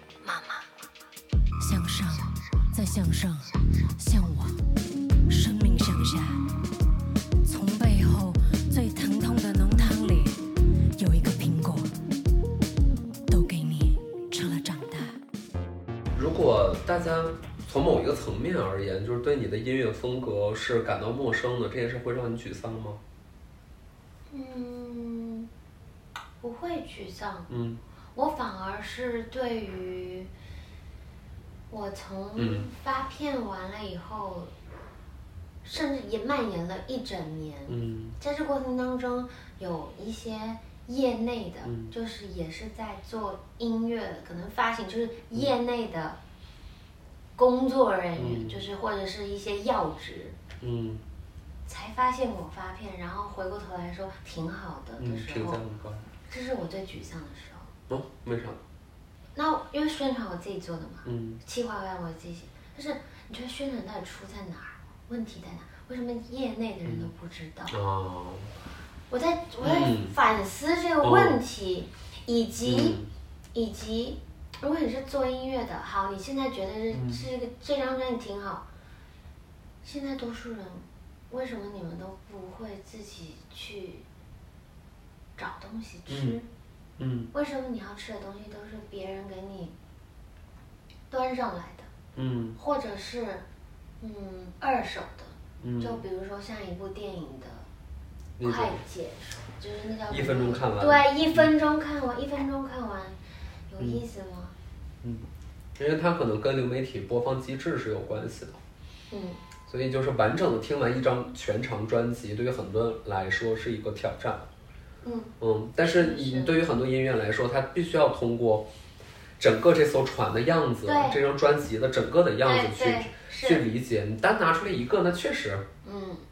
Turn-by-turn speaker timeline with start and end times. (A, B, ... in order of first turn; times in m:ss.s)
0:00.2-0:00.6 A
0:01.6-0:03.5 B
0:04.0-0:04.6 B
0:05.3-0:06.4 B
0:07.5-0:10.4 B
0:11.0-0:11.9 B
0:13.3-0:15.1 B
0:16.1-0:23.0 C
0:24.3-0:25.5 A
0:26.4-0:27.5 A
0:27.5-0:27.8 C
0:28.1-0:30.3 A
0:31.7-0:34.5 A
0:32.4-0:32.7 C
0:35.6-0:46.2 A
0:37.7-0:38.1 C
0:41.6-0:41.9 C
0:47.4-0:50.4 A
0:48.2-0:48.6 C
0:50.6-0:51.0 C
0:51.6-0:55.6 A
0:55.0-0:56.1 C
0:56.3-0:57.7 A
0:57.9-0:58.6 C
0:59.3-1:07.8 A
1:01.0-1:01.4 C
1:07.7-1:08.5 C
1:09.1-1:13.0 A
1:09.6-1:10.1 C
1:11.0-1:11.4 C
1:12.6-1:13.1 C
1:13.5-1:18.6 A
1:16.9-1:17.2 C
1:19.8-1:24.0 A
1:25.4-1:26.5 A
1:26.1-1:26.4 C
1:27.0-1:27.3 C
1:27.3-1:29.7 A
1:31.1-1:31.9 A
1:32.1-1:32.6 C
1:32.6-1:33.4 A
1:34.0-1:37.6 A
1:35.6-1:36.0 C
1:38.4-1:38.8 C
1:38.4-1:43.2 A
1:40.1-1:41.5 C
1:43.7-1:44.5 A
1:45.8-1:48.6 C
1:49.1-1:49.4 A
1:49.7-1:54.5 C
1:55.0-1:55.3 A
1:55.4-1:58.7 C
1:55.9-1:56.6 A
1:59.4-2:05.6 C
2:00.8-2:01.2 A
2:02.4-2:03.6 A
2:05.8-2:06.2 A